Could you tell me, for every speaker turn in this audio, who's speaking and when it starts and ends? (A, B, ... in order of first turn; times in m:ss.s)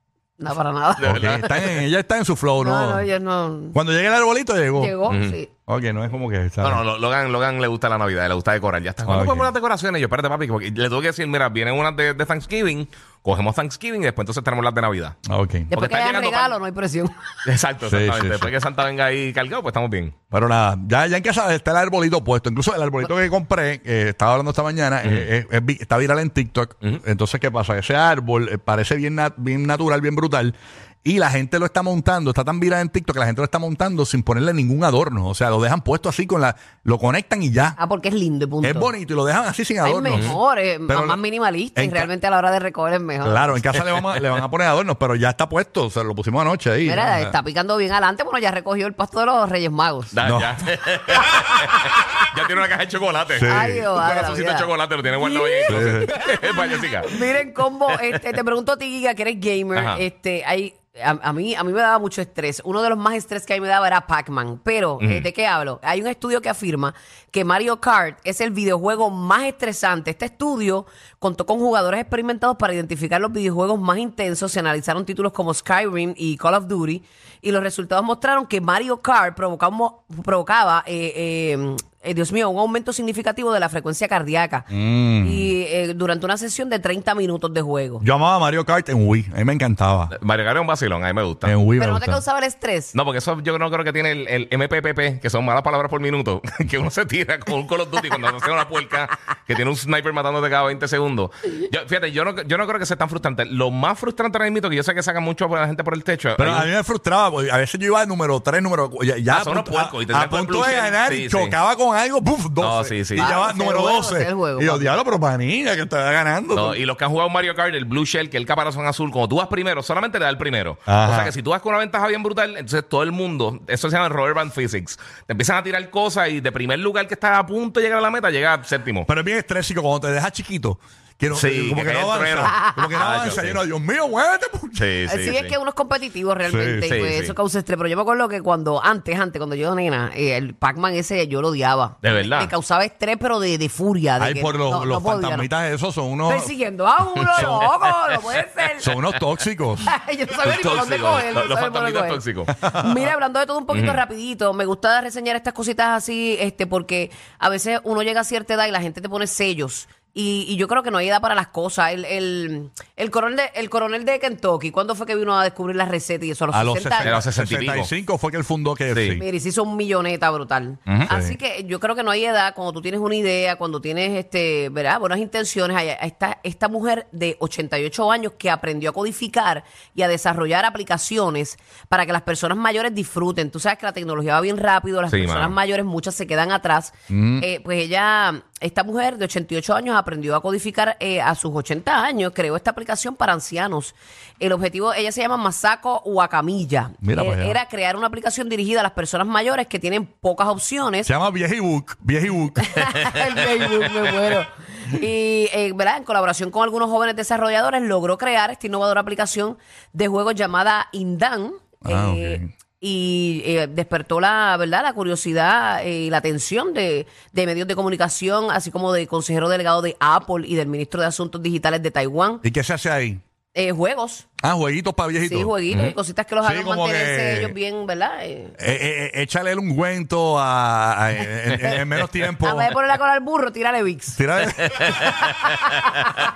0:00.4-0:01.6 A
0:01.0-0:01.5 B
0:01.0-0:03.1 C
0:02.6-0:03.8 A
0:03.7-0:04.9 C
0:04.7-0:05.5 A
0:05.1-0:05.4 B
0:05.7-0:06.8 C
0:06.6-0:15.2 B
0:09.0-0:09.5 C
0:15.3-0:15.7 C
0:15.7-0:17.2 A
0:15.7-0:16.5 B
0:17.4-0:20.1 B
0:17.8-0:18.5 C
0:20.3-0:37.8 C
0:37.8-0:38.9 A
0:38.6-0:40.4 C
0:39.8-0:43.6 A
0:40.9-0:41.2 C
0:41.7-0:42.1 C
0:43.2-0:47.4 C
0:43.7-0:44.3 B
0:46.8-0:50.1 A
0:50.1-0:57.1 B
0:50.2-0:50.6 C
0:51.6-0:52.2 A
0:53.3-0:54.0 C
0:53.5-0:56.3 A
0:55.7-0:56.1 C
0:57.0-1:28.0 A
0:59.7-1:00.0 B
1:05.0-1:05.3 B
1:24.7-1:25.5 C
1:28.0-1:30.1 C
1:30.1-1:31.5 B
1:31.4-1:32.2 C
1:31.8-1:32.9 A
1:32.9-1:46.7 B
1:46.4-1:56.8 C
1:49.3-1:51.6 B
1:52.6-1:53.3 B
1:53.2-1:54.9 A
1:56.5-2:09.1 B
2:00.9-2:01.3 C
2:09.0-2:14.9 C
2:11.3-2:13.6 B
2:12.5-2:13.1 A
2:14.8-2:15.5 B
2:15.1-2:25.5 A
2:16.4-2:17.0 C
2:16.9-2:17.3 B
2:22.0-2:22.5 B
2:24.2-2:26.5 C
2:26.2-2:28.9 A
2:27.3-2:27.7 B
2:27.3-2:27.7 C
2:28.8-2:29.9 C
2:29.8-2:47.2 A
2:30.4-2:32.5 B
2:32.6-2:32.9 C
2:33.7-2:34.0 B
2:46.5-2:49.2 C
2:47.0-2:47.9 B
2:48.9-2:49.2 B
2:49.2-3:21.1 A
2:51.1-2:51.4 C
3:05.1-3:05.5 B
3:07.1-3:07.4 C
3:17.0-3:17.6 C
3:21.0-3:23.4 C
3:22.6-3:42.4 A
3:31.8-3:32.5 C
3:42.4-3:43.2 C
3:43.5-3:44.2 A
3:44.4-3:47.5 C
3:45.2-3:48.6 A
3:48.6-3:52.7 C
3:52.4-3:54.2 A
3:54.2-3:55.1 C
3:54.7-3:55.6 B
3:55.3-3:56.1 A